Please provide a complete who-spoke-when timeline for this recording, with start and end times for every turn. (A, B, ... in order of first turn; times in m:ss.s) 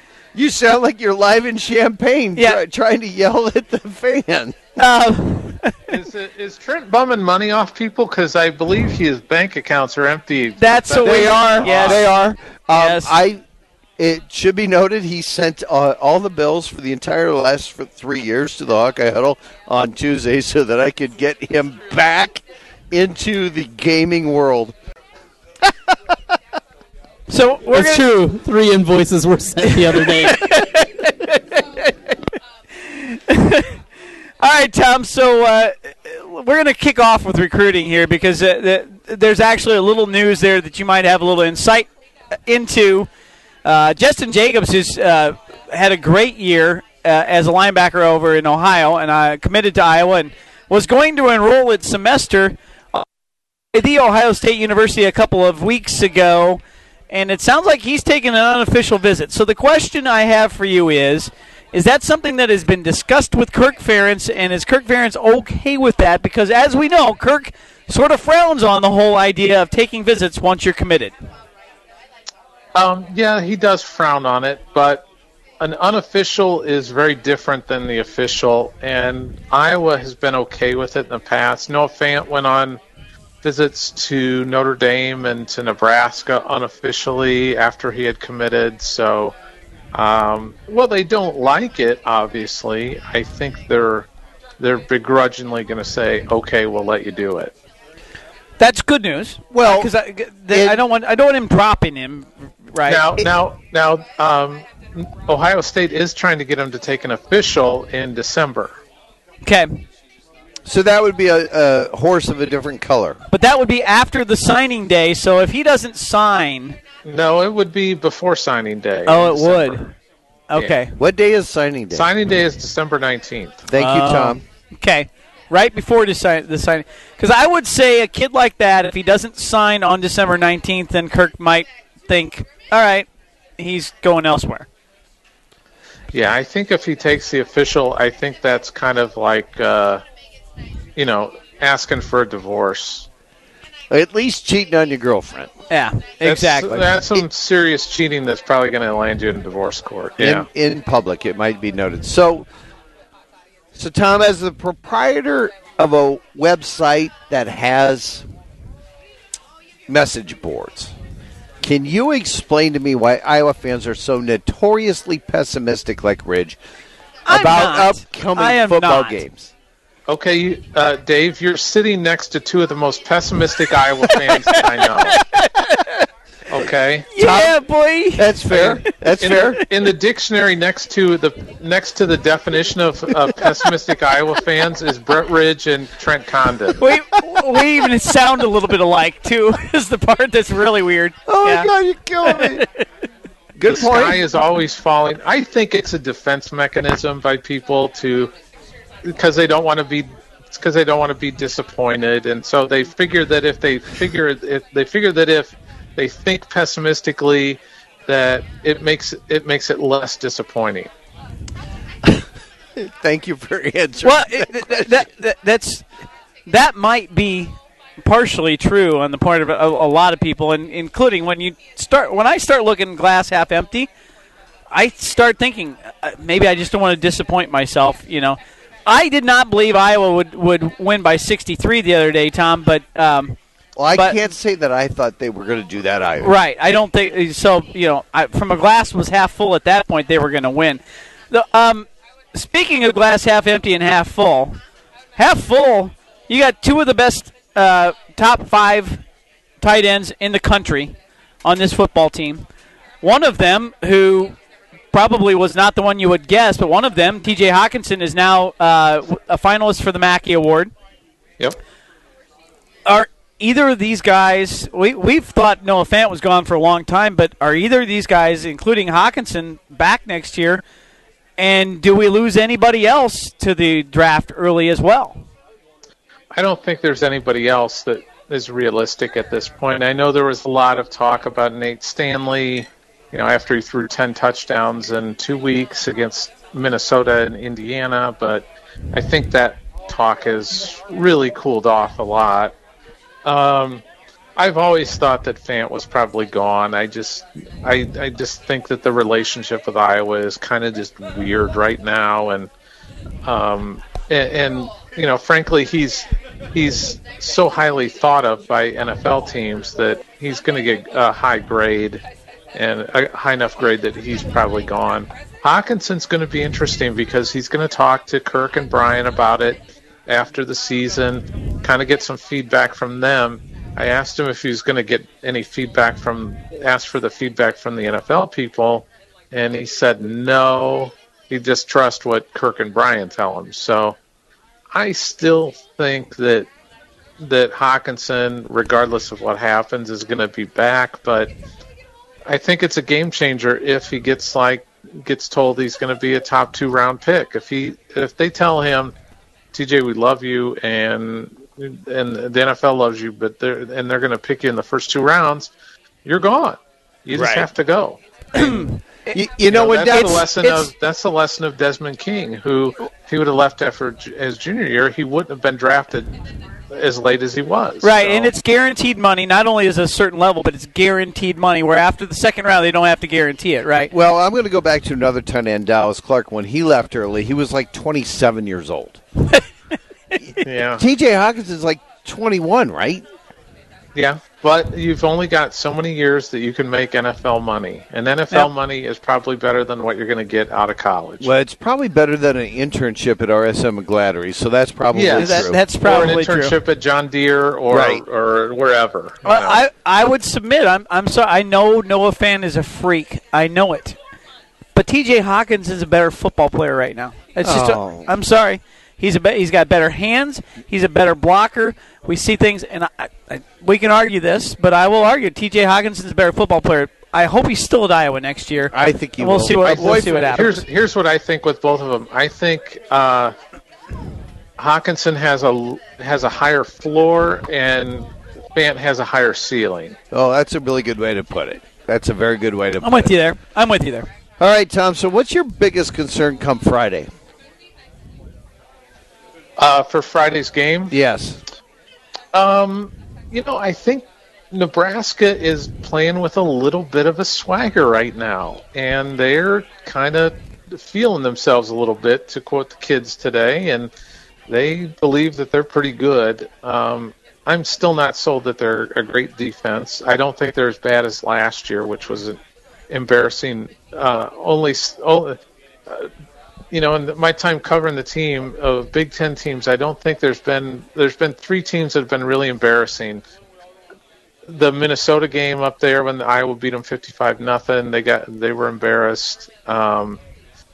0:00.3-0:04.5 A
0:04.8-0:05.8 B
0:05.9-0:12.0 C
0:10.6-0:12.1 B
0:11.0-0:13.4 A
0:12.7-0:13.2 B
0:14.0-0:24.7 A
0:27.3-0:28.1 B
0:27.8-0:30.0 D
0:29.8-0:31.6 B
0:32.9-0:33.7 B
0:34.4-0:41.9 B
0:42.4-0:43.1 B
0:43.6-0:53.0 B
0:53.7-1:11.1 B
1:12.7-1:15.0 C
1:15.6-1:22.8 C
1:23.4-1:29.3 C
1:29.9-1:34.1 C
1:34.6-1:37.5 C
1:38.6-1:43.1 B
1:39.5-1:39.9 A
1:40.5-1:40.8 A
1:42.8-1:48.8 C
1:49.4-1:49.8 B
1:50.6-1:53.2 A
1:53.3-1:56.8 B
1:57.0-1:59.9 C
1:59.0-1:59.9 B
2:00.5-2:00.9 B
2:00.6-2:00.8 C
2:01.0-2:02.1 A
2:01.9-2:03.7 C
2:03.7-2:04.4 A
2:03.8-2:13.0 B
2:13.6-2:14.6 B
2:16.1-2:20.0 C
2:21.0-2:23.0 C
2:23.9-2:25.5 A
2:25.7-2:26.9 B
2:26.2-2:30.5 C
2:30.2-2:32.5 A
2:33.7-2:38.2 A
2:39.9-2:40.9 A
2:41.6-2:46.6 A
2:47.3-2:49.2 B
2:47.3-2:49.5 A
2:50.1-2:55.2 C
2:55.3-2:55.8 B
2:56.5-2:57.1 C
2:57.1-2:59.5 B
2:57.2-2:57.5 A
2:58.2-2:59.6 A
2:58.5-3:06.8 C
3:06.8-3:11.7 B
3:11.3-3:12.6 A
3:12.2-3:12.6 B
3:13.6-3:14.2 A
3:13.6-3:18.3 C
3:19.0-3:30.9 C
3:32.8-3:35.0 A
3:34.0-3:35.8 B
3:36.5-3:43.9 B
3:44.7-3:53.4 B
3:53.8-3:56.3 A
3:53.9-3:54.2 B
3:56.2-4:04.6 B
4:05.2-4:09.0 B
4:09.6-4:12.4 B
4:13.0-4:14.4 B
4:14.9-4:20.7 B
4:22.8-4:30.6 B
4:31.4-4:35.2 B
4:36.3-4:52.5 C
4:53.2-4:53.8 C
4:54.4-5:02.5 C
5:03.2-5:12.0 C
5:12.5-5:34.0 C
5:34.7-5:36.5 C
5:37.2-5:41.3 C
5:42.2-5:48.9 C
5:49.5-5:55.5 C
5:56.0-5:58.5 C
5:57.1-5:57.4 A
5:58.3-5:59.2 B
5:59.1-6:00.6 A
5:59.5-6:06.1 C
5:59.9-6:00.6 B
6:06.7-6:08.3 C
6:07.8-6:13.9 B
6:13.9-6:19.0 A
6:20.2-6:23.0 A
6:20.4-6:20.8 C
6:23.9-6:31.3 C
6:31.2-6:35.7 A
6:34.9-6:39.6 C
6:35.2-6:36.5 B
6:37.7-6:38.0 A
6:39.2-6:44.0 B
6:44.7-7:00.6 B
6:47.4-6:48.1 A
6:58.7-7:00.5 A
6:59.6-7:03.3 C
7:04.6-7:10.0 C
7:10.1-7:13.1 A
7:12.8-7:14.1 B
7:14.4-7:17.1 A
7:19.6-7:21.0 C
7:20.9-7:21.4 A
7:22.3-7:33.9 C
7:34.5-7:42.4 C
7:42.9-7:46.1 C
7:46.7-7:53.2 C
7:54.5-8:00.2 C